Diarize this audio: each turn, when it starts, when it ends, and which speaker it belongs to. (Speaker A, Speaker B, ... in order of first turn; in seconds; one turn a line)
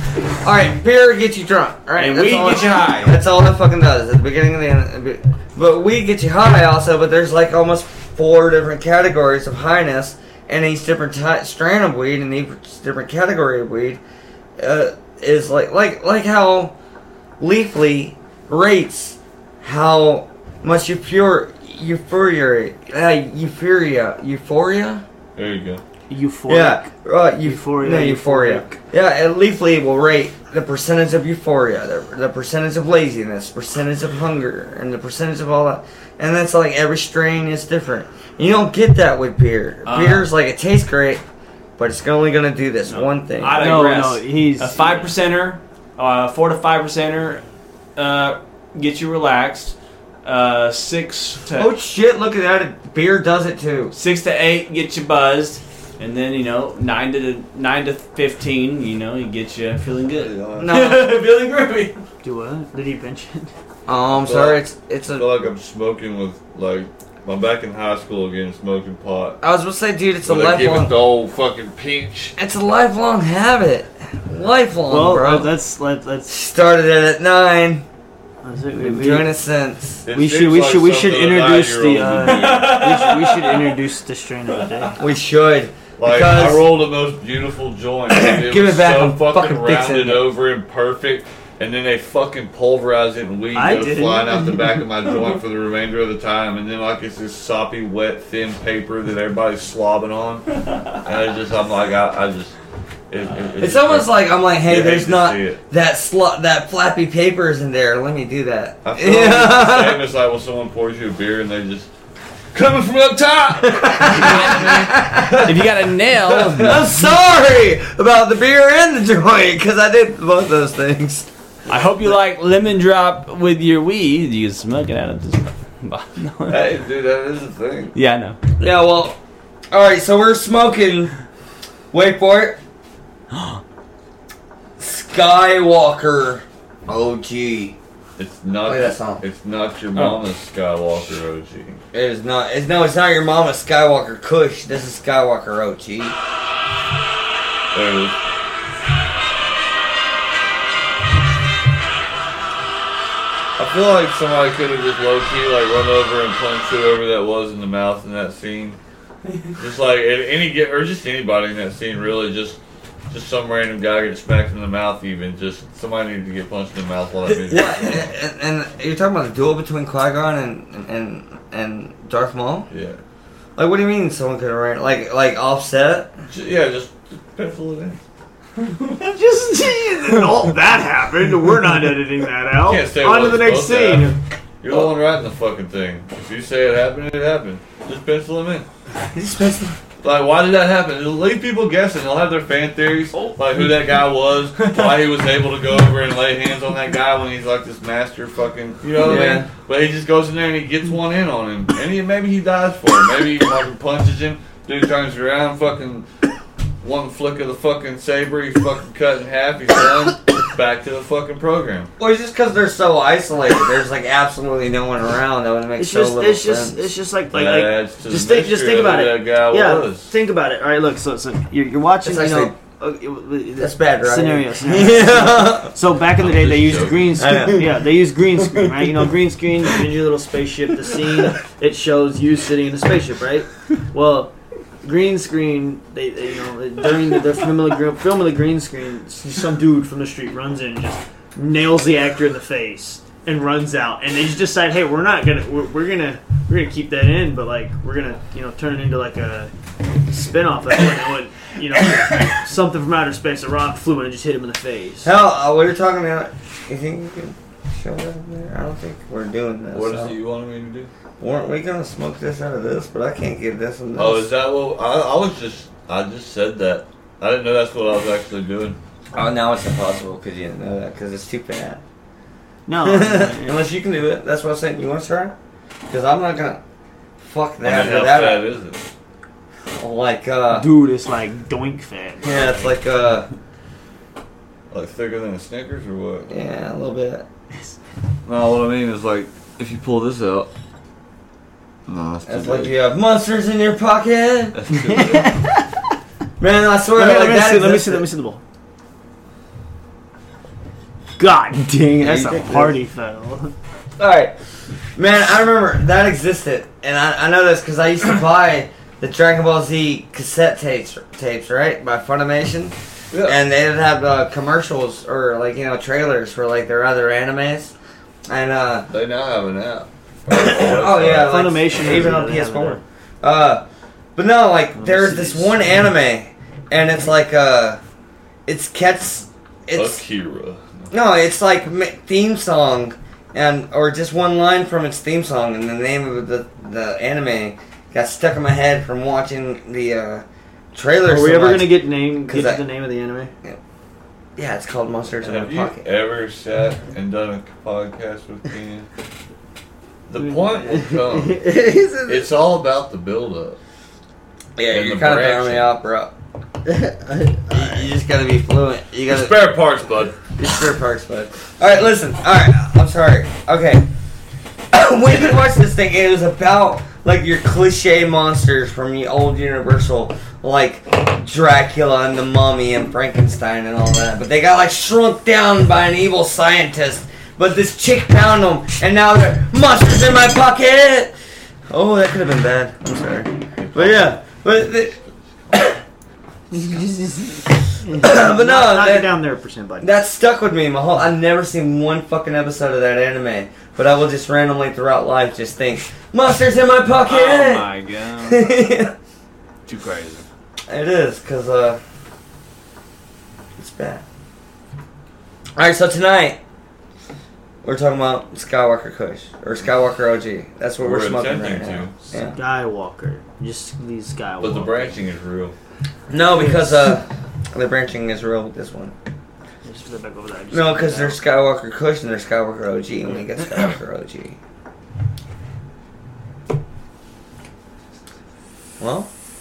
Speaker A: 0.4-14.0
Speaker B: 1.9-3.1
Speaker A: 14.6-16.8
Speaker A: 17.4-25.0
Speaker C: 25.4-25.8
Speaker D: 26.1-28.8
Speaker A: 26.5-41.2
Speaker B: 39.9-40.3
Speaker A: 41.8-43.9
Speaker B: 42.9-47.4
Speaker D: 43.5-45.1
Speaker B: 48.0-51.7
Speaker A: 51.6-53.9
Speaker B: 53.9-62.0
Speaker C: 60.2-60.7
Speaker A: 60.6-61.1
Speaker D: 62.2-63.5
Speaker A: 63.9-65.3
Speaker C: 64.2-64.6
Speaker C: 65.2-69.4
Speaker A: 69.4-71.0
Speaker C: 70.2-72.3
Speaker A: 72.4-75.5
Speaker D: 74.9-76.3
Speaker A: 76.3-77.8
Speaker D: 78.4-79.3
Speaker A: 78.8-80.0
Speaker C: 80.0-82.8
Speaker D: 80.1-85.0
Speaker B: 82.3-83.8
Speaker B: 84.5-85.0
Speaker A: 85.0-86.7
Speaker C: 86.0-100.5
Speaker A: 88.1-90.3
Speaker D: 93.5-94.8
Speaker C: 101.0-102.6
Speaker C: 103.1-105.6
Speaker A: 103.6-110.0
Speaker C: 108.8-111.9
Speaker C: 112.5-115.5
Speaker A: 113.6-115.6
Speaker B: 114.1-116.9
Speaker A: 116.6-121.3
Speaker B: 121.7-126.6
Speaker C: 126.5-127.9
Speaker B: 128.0-128.4
Speaker A: 128.6-129.2
Speaker A: 129.7-131.1
Speaker A: 131.9-132.6
Speaker B: 133.3-133.6
Speaker A: 134.8-137.8
Speaker C: 138.2-141.8
Speaker A: 138.6-139.2
Speaker B: 139.9-140.2
Speaker A: 141.9-146.2
Speaker C: 147.7-148.2
Speaker C: 153.6-158.8
Speaker C: 159.6-168.1
Speaker A: 167.5-172.7
Speaker C: 172.7-173.0
Speaker A: 173.6-176.1
Speaker C: 176.3-178.0
Speaker D: 178.9-184.2
Speaker C: 182.6-188.7
Speaker A: 189.1-189.8
Speaker C: 190.0-206.1
Speaker B: 193.2-193.8
Speaker B: 194.6-194.9
Speaker A: 199.0-199.5
Speaker C: 206.8-211.9
Speaker A: 212.0-216.8
Speaker D: 215.8-249.5
Speaker C: 217.3-220.1
Speaker A: 222.0-222.5
Speaker A: 223.6-225.7
Speaker C: 226.0-227.2
Speaker A: 227.2-227.7
Speaker D: 250.1-255.1
Speaker A: 255.0-260.2
Speaker C: 259.7-260.9
Speaker A: 261.2-264.3
Speaker C: 264.0-268.8
Speaker A: 269.1-271.8
Speaker D: 272.7-273.6
Speaker A: 272.8-275.4
Speaker A: 275.9-276.6
Speaker A: 277.2-278.5
Speaker C: 277.6-278.9
Speaker A: 279.8-280.7
Speaker D: 280.5-282.7
Speaker A: 282.2-283.3
Speaker C: 284.7-286.3
Speaker A: 286.3-287.2
Speaker C: 288.3-290.5
Speaker C: 291.9-292.7
Speaker A: 292.2-294.6
Speaker C: 294.5-295.4
Speaker D: 294.9-295.7
Speaker A: 296.4-298.0
Speaker D: 296.9-298.4
Speaker D: 301.2-303.5
Speaker A: 302.0-302.8
Speaker A: 304.0-304.3
Speaker A: 305.0-317.7
Speaker C: 313.1-313.4
Speaker A: 318.3-318.9
Speaker C: 318.9-321.5
Speaker A: 320.3-323.6
Speaker D: 321.0-322.8
Speaker A: 324.2-327.8
Speaker D: 324.8-325.9
Speaker A: 328.5-330.0
Speaker C: 329.7-330.9
Speaker A: 330.9-341.8
Speaker D: 341.1-343.3
Speaker A: 342.3-342.6
Speaker A: 344.4-345.9
Speaker C: 345.2-348.9
Speaker C: 350.1-351.4
Speaker D: 350.2-352.2
Speaker C: 352.1-353.6
Speaker A: 354.6-356.1
Speaker C: 354.7-355.7
Speaker D: 356.7-357.8
Speaker A: 357.5-359.4
Speaker C: 359.1-360.2
Speaker A: 360.3-363.9
Speaker A: 364.7-381.1
Speaker A: 381.7-385.0
Speaker C: 383.6-385.5
Speaker A: 385.5-385.8
Speaker D: 386.5-389.9
Speaker A: 387.9-389.1
Speaker A: 389.8-397.7
Speaker B: 397.1-398.5
Speaker A: 398.2-398.9
Speaker B: 399.7-400.3
Speaker A: 400.7-401.8
Speaker A: 403.6-404.0
Speaker A: 405.6-406.4
Speaker A: 407.6-412.4
Speaker C: 410.8-411.9
Speaker D: 412.2-415.0
Speaker C: 414.4-415.6
Speaker A: 416.1-418.9
Speaker D: 416.4-416.7
Speaker D: 419.6-421.2
Speaker A: 420.5-424.4
Speaker A: 428.8-429.1